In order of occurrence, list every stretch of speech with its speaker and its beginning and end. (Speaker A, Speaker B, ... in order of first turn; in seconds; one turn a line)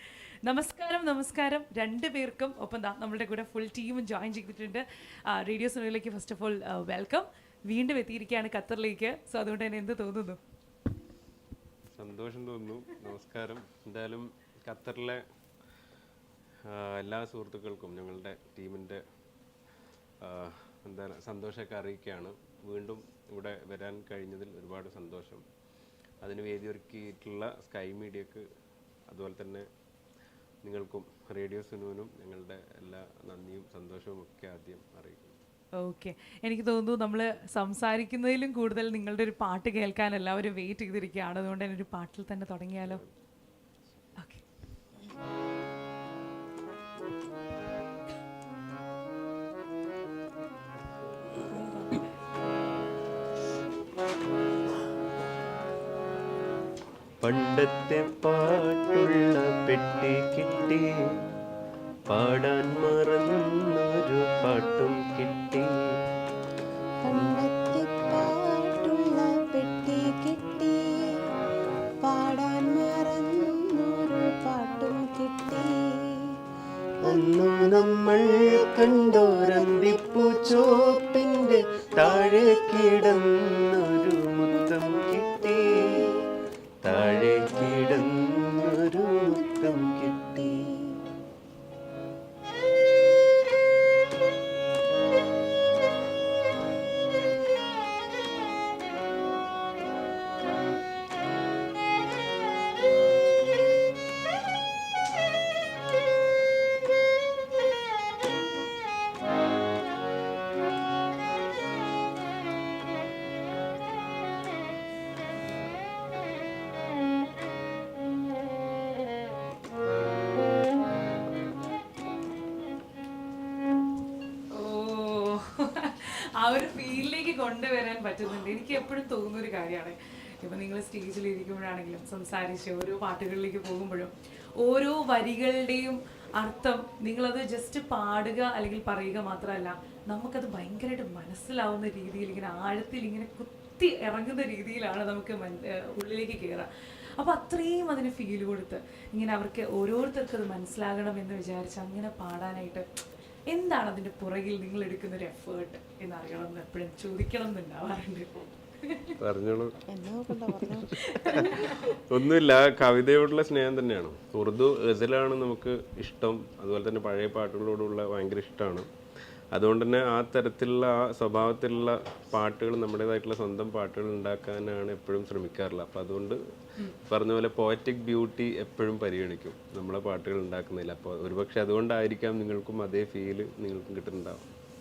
Speaker A: 0.4-10.4
Speaker B: 11.9-15.2
Speaker B: 16.7-19.0
Speaker B: 20.2-25.4
Speaker B: 26.2-28.4
Speaker B: 29.1-29.7
Speaker B: 30.6-35.3
Speaker A: 35.8-43.0
Speaker B: 42.8-43.1
Speaker A: 44.2-44.4
Speaker B: 57.2-61.2
Speaker B: 62.1-65.8
Speaker C: 67.0-71.2
Speaker B: 67.1-67.4
Speaker C: 72.0-76.3
Speaker B: 77.0-86.1
Speaker C: 77.0-78.0
Speaker C: 78.8-81.0
Speaker C: 82.0-82.9
Speaker C: 85.7-86.2
Speaker B: 86.8-90.7
Speaker C: 86.9-87.4
Speaker A: 124.5-152.8
Speaker A: 153.5-159.2
Speaker B: 159.2-159.8
Speaker C: 159.9-161.4
Speaker A: 160.9-162.0
Speaker B: 161.2-168.9
Speaker B: 169.5-176.4
Speaker B: 177.0-184.5